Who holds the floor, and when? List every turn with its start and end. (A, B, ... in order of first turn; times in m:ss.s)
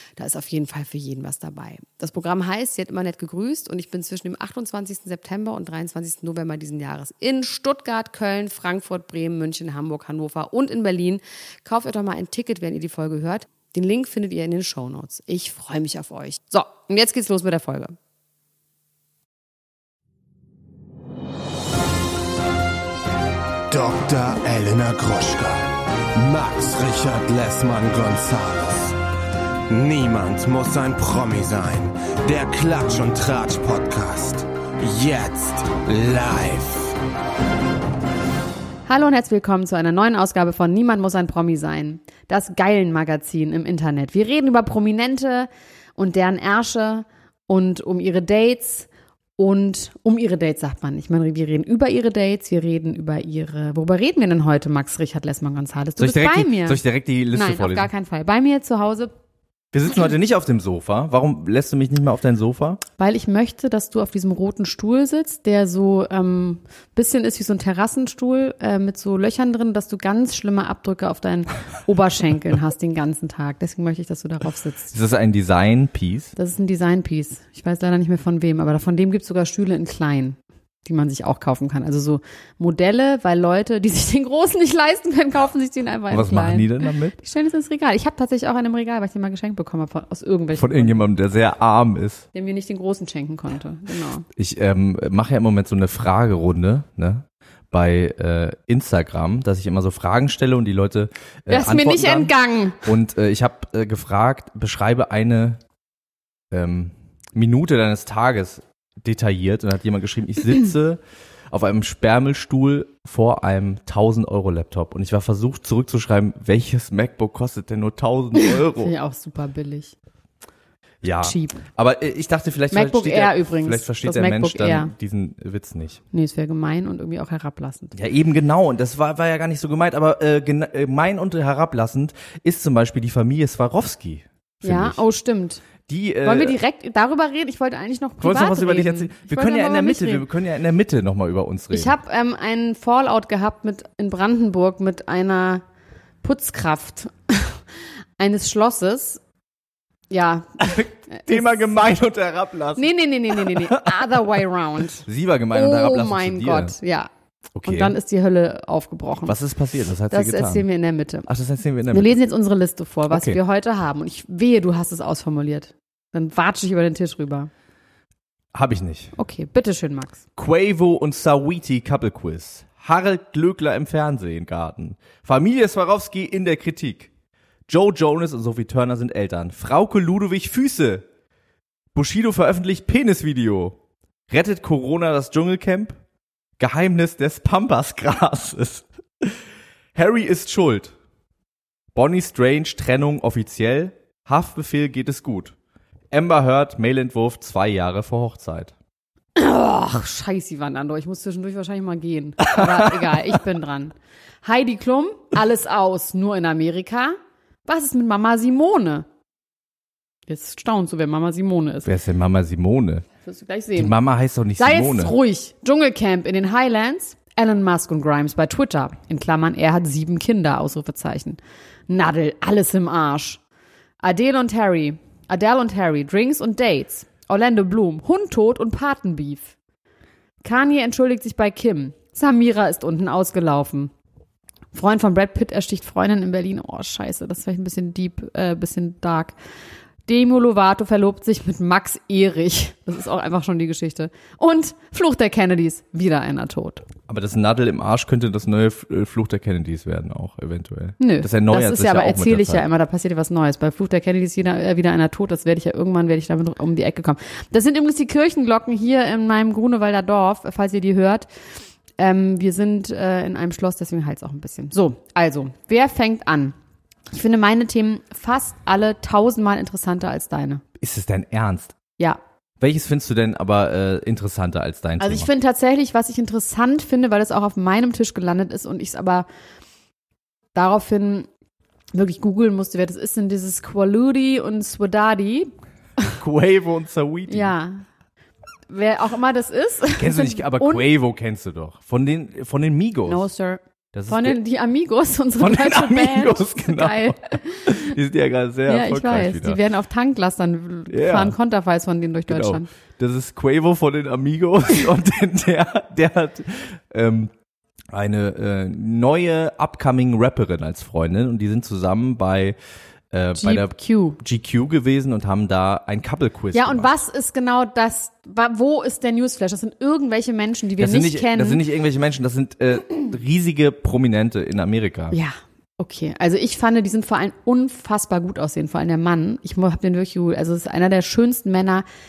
0:00.2-0:18.0 A
0:23.7-0:29.0 B
0:29.7-0:37.0 B
0:38.9-0:56.8 A
0:56.0-0:57.9 C
0:57.3-0:59.1 A
0:59.7-1:02.8 C
1:03.0-1:14.9 A
1:14.9-1:16.3 C
1:16.4-1:31.1 A
1:26.1-1:27.2 C
1:30.6-1:32.2 C
1:32.3-1:34.3 A
1:34.4-1:45.6 C
1:41.5-1:42.8 A
1:46.5-1:58.9 C
1:58.3-1:59.9 A
2:01.0-2:06.0 C
2:01.1-2:01.6 A
2:02.7-2:04.9 A
2:06.1-2:07.9 A
2:07.9-2:15.0 C
2:14.6-2:15.6 A
2:15.9-2:16.6 C
2:16.2-2:20.2 A
2:18.2-2:21.9 C
2:21.7-2:25.6 A
2:26.2-2:27.6 A
2:28.2-2:29.2 A
2:30.1-2:31.9 A
2:30.6-2:34.1 C
2:32.8-2:37.1 A
2:35.0-2:36.8 C
2:37.6-2:37.9 C
2:37.6-2:39.4 A
2:39.2-2:40.6 C
2:40.1-2:41.3 A
2:41.3-2:42.1 C
2:41.9-2:47.5 A
2:43.1-2:43.4 C
2:48.5-2:49.1 C
2:49.2-2:50.2 A
2:50.4-2:57.1 C
2:57.7-3:01.1 C
3:01.9-3:03.8 C
3:04.3-3:06.0 C
3:06.6-3:09.4 C
3:09.9-3:10.9 C
3:11.9-3:15.6 C
3:16.1-3:18.7 C
3:19.4-3:29.1 A
3:22.6-3:22.9 C
3:30.3-3:31.9 A
3:31.8-3:33.0 C
3:33.2-3:34.0 A
3:33.8-3:35.2 C
3:34.6-3:43.4 A
3:44.0-3:49.6 A
3:50.4-3:53.9 A
3:54.7-3:59.4 A
4:00.1-4:06.8 A
4:07.1-4:12.6 C
4:11.0-4:21.3 A
4:22.0-4:26.5 A
4:27.1-4:30.6 A
4:30.8-4:31.8 C
4:32.6-4:35.3 C
4:35.0-4:39.2 A
4:40.5-4:41.3 A
4:41.9-4:46.1 A
4:46.2-4:47.5 C
4:47.3-4:47.9 A
4:48.7-4:50.8 A
4:50.0-4:53.2 C
4:53.1-4:58.0 A
4:53.9-4:54.4 C
4:55.4-4:59.6 C
4:58.7-5:02.7 A
5:00.9-5:01.4 C
5:02.3-5:07.3 C
5:07.9-5:12.6 C
5:13.1-5:16.9 C
5:13.4-5:14.2 A
5:16.5-5:21.6 A
5:20.8-5:25.2 C
5:25.1-5:31.8 A